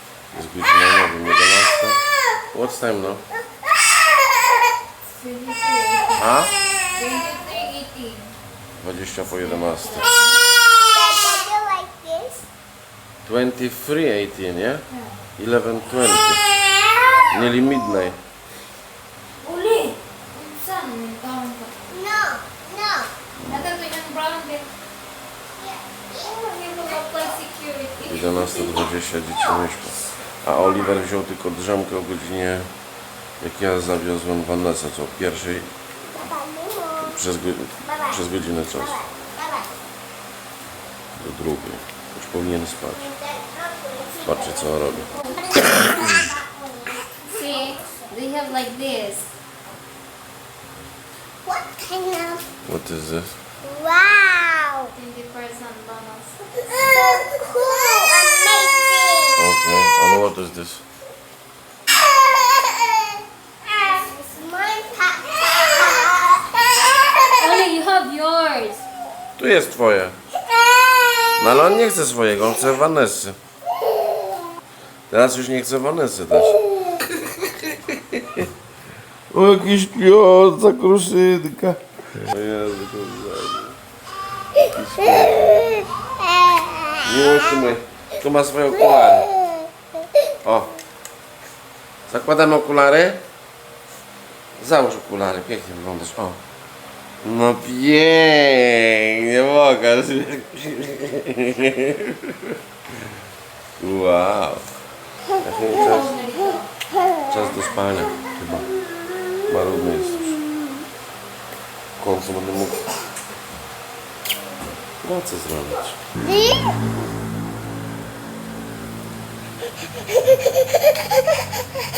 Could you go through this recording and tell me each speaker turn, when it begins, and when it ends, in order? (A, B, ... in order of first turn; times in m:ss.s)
0:00.3-0:03.2 A
0:05.1-0:06.3 B
0:06.1-0:06.5 A
0:06.9-0:08.4 B
0:08.7-0:10.2 A
0:09.6-0:10.4 B
0:10.9-0:12.4 C
0:13.2-0:14.8 A
0:14.9-0:15.2 B
0:15.4-0:16.5 A
0:17.2-0:18.2 A
0:19.4-0:21.8 B
0:21.9-0:23.1 C
0:23.4-0:23.7 A
0:23.4-0:24.7 B
0:25.6-0:26.2 C
0:26.2-0:28.8 B
0:28.0-0:32.7 A
0:33.4-0:35.7 A
0:36.1-0:37.1 C
0:37.0-0:39.0 A
0:39.0-0:39.7 C
0:41.2-0:43.1 A
0:43.1-0:44.3 C
0:44.2-0:46.2 A
0:45.1-0:47.3 C
0:47.2-0:49.3 B
0:51.4-0:52.4 C
0:52.6-0:53.4 A
0:53.6-0:54.9 C
0:54.9-0:56.6 B
0:56.7-0:59.4 C
0:59.3-1:00.8 A
1:02.3-1:03.0 C
1:03.6-1:06.5 C
1:07.4-1:08.8 B
1:09.4-1:10.2 A
1:11.3-1:13.4 A
1:15.1-1:16.6 A
1:17.1-1:18.5 A
1:19.3-1:23.8 A
1:24.6-1:25.8 A
1:27.0-1:29.4 A
1:30.4-1:30.7 A
1:32.1-1:33.2 A
1:34.6-1:36.4 A
1:37.2-1:42.6 A
1:43.8-1:44.7 A
1:45.4-1:46.2 A
1:45.7-1:46.7 B
1:47.3-1:48.7 A
1:49.4-1:50.5 A
1:52.0-1:52.9 A
1:55.0-1:56.0 A
1:56.4-1:56.7 C